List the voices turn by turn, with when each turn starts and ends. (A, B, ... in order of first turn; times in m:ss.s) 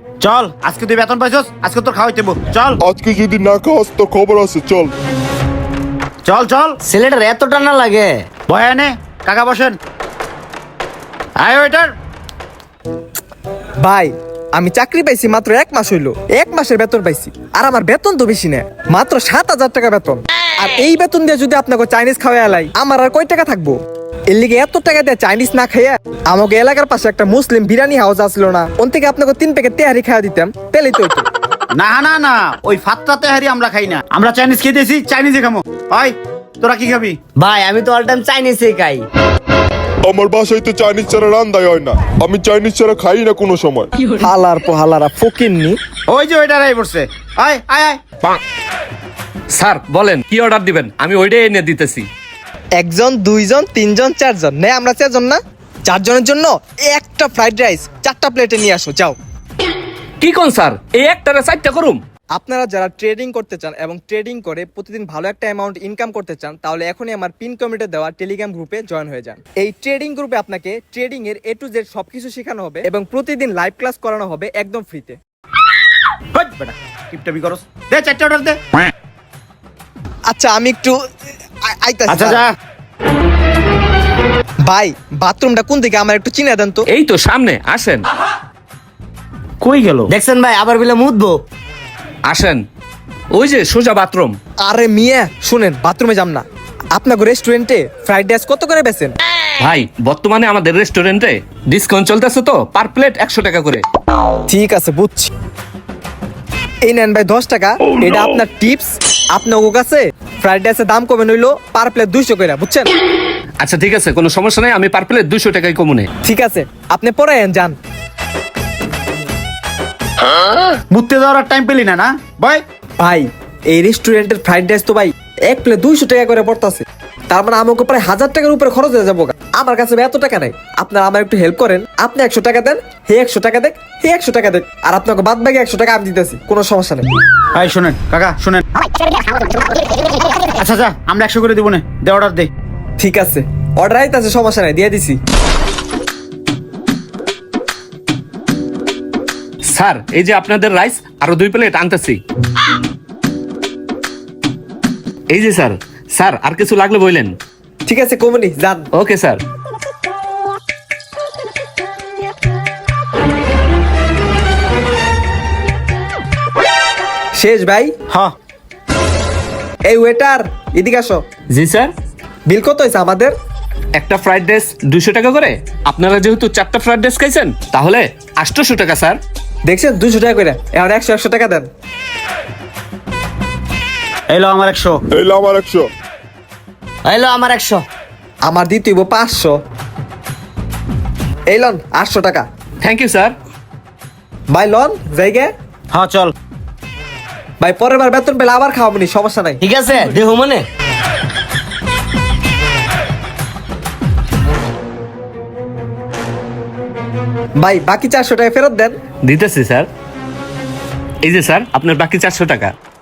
0:00.2-0:02.8 A
0:02.8-0:04.9 B
0:06.2-0:06.8 A
0:06.8-0:08.2 C
0:08.5-0:09.8 A
0:11.4-0:11.9 A
0:13.8-0:23.8 D
0:24.3-0:31.3 D
0:31.7-0:37.2 A
0:37.4-0:39.0 C
0:40.0-0:43.9 B
0:44.2-0:45.8 D
0:46.1-0:48.0 A
0:49.5-0:52.1 E
0:52.8-0:59.2 D
1:00.2-1:02.0 E
1:02.3-1:15.2 D
1:16.3-1:18.6 A
1:20.3-1:21.0 D
1:21.6-1:22.4 D
1:22.1-1:22.5 A
1:24.6-1:26.9 D
1:26.9-1:28.0 E
1:29.6-1:30.1 A
1:30.1-1:31.4 C
1:32.2-1:32.6 E
1:33.3-1:34.4 E
1:34.6-1:36.4 D
1:36.9-1:39.2 D
1:39.6-1:43.8 E
1:44.5-1:45.3 D
1:46.8-1:52.9 D
1:53.6-1:56.1 E
1:56.2-1:57.8 D
2:00.9-2:02.6 A
2:03.0-2:17.1 D
2:17.5-2:18.6 A
2:20.4-2:22.5 A
2:23.0-2:25.2 D
2:29.7-2:32.2 E
2:35.3-2:37.3 E
2:37.8-2:38.9 D
2:39.0-2:39.4 E
2:47.4-2:47.9 D
2:49.8-2:51.2 D
2:51.5-2:51.9 E
2:52.5-2:53.3 D
2:54.0-2:59.2 E
2:59.6-3:01.7 D
3:04.3-3:05.0 A
3:05.1-3:05.9 B
3:07.1-3:07.8 C
3:08.4-3:09.6 D
3:11.5-3:12.4 D
3:12.8-3:13.3 E
3:14.5-3:15.5 D
3:15.9-3:16.3 A
3:17.6-3:19.6 D
3:19.6-3:20.6 C
3:27.6-3:29.0 D
3:29.2-3:29.9 E
3:31.2-3:32.7 E